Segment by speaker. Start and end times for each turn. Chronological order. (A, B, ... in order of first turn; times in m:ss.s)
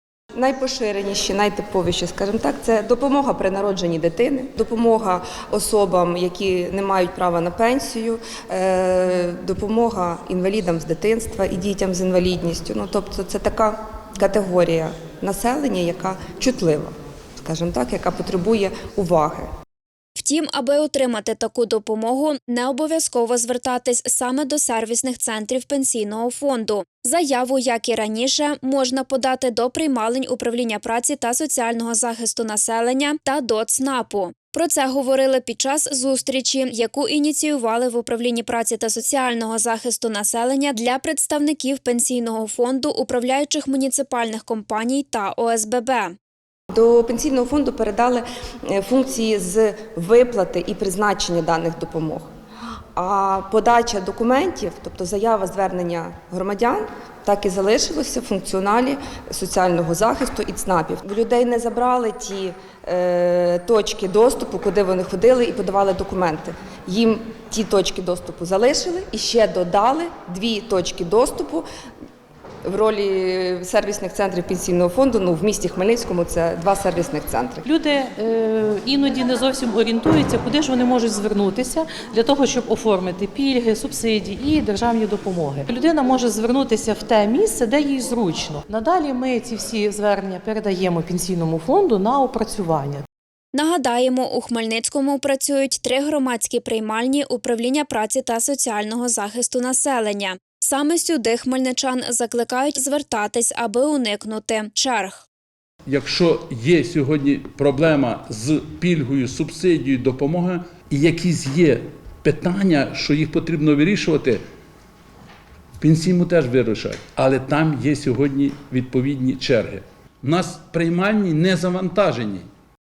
0:00.3-0:19.5 A
0:20.2-0:46.1 B
0:46.7-0:52.3 A
0:53.0-1:11.6 A
1:12.6-1:17.6 A
1:17.6-1:33.0 C
1:33.5-1:45.2 B
1:45.8-1:54.4 D
1:55.8-2:02.4 D